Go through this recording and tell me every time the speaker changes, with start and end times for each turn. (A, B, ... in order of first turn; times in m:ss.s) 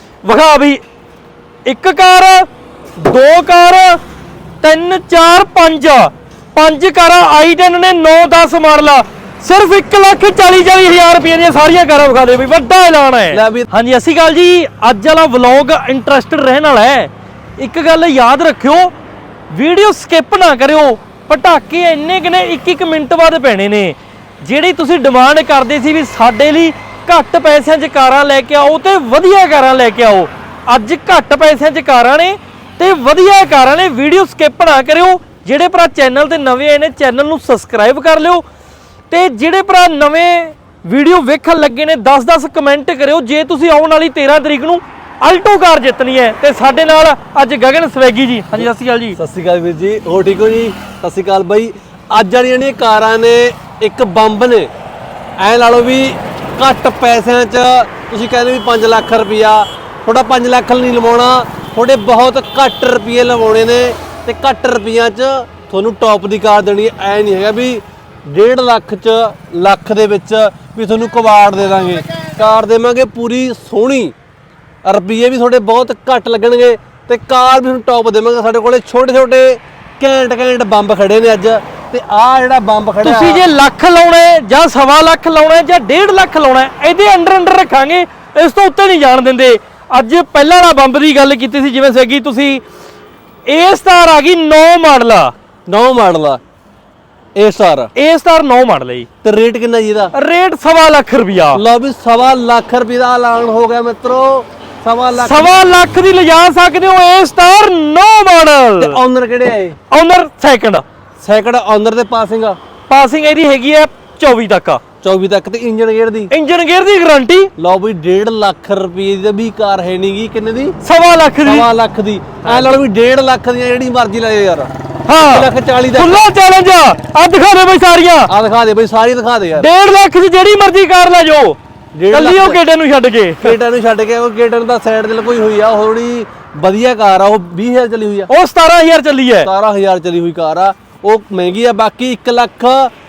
0:00.2-0:00.8 A
0:01.6-0:02.4 A
0:03.0-0:04.0 A
0:04.6-0:18.9 A
0:13.3-0:13.7 B
0:19.5-0:38.4 A
0:39.1-0:49.2 A
0:48.6-0:54.7 B
0:55.4-1:14.1 B
1:14.8-1:23.4 B
1:23.0-1:32.6 A
1:33.4-1:35.3 A
1:35.7-1:36.4 B
1:37.3-1:37.9 B
1:38.0-1:39.1 A
1:39.2-1:40.1 B
1:40.1-1:41.6 A
1:41.5-1:45.5 B
1:45.2-1:49.0 A
1:48.8-1:49.8 B
1:49.9-1:50.8 A
1:51.2-1:52.6 B
1:52.9-1:54.8 A
1:55.0-1:56.3 B
1:56.3-1:57.5 A
1:57.6-2:00.7 B
2:00.8-2:01.6 A
2:01.4-2:06.2 B
2:02.4-2:02.8 A
2:05.1-2:08.3 A
2:08.3-2:09.7 B
2:09.6-2:11.6 A
2:11.9-2:12.6 B
2:12.1-2:13.6 A
2:13.4-2:18.3 B
2:18.3-2:19.5 A
2:19.4-2:22.9 B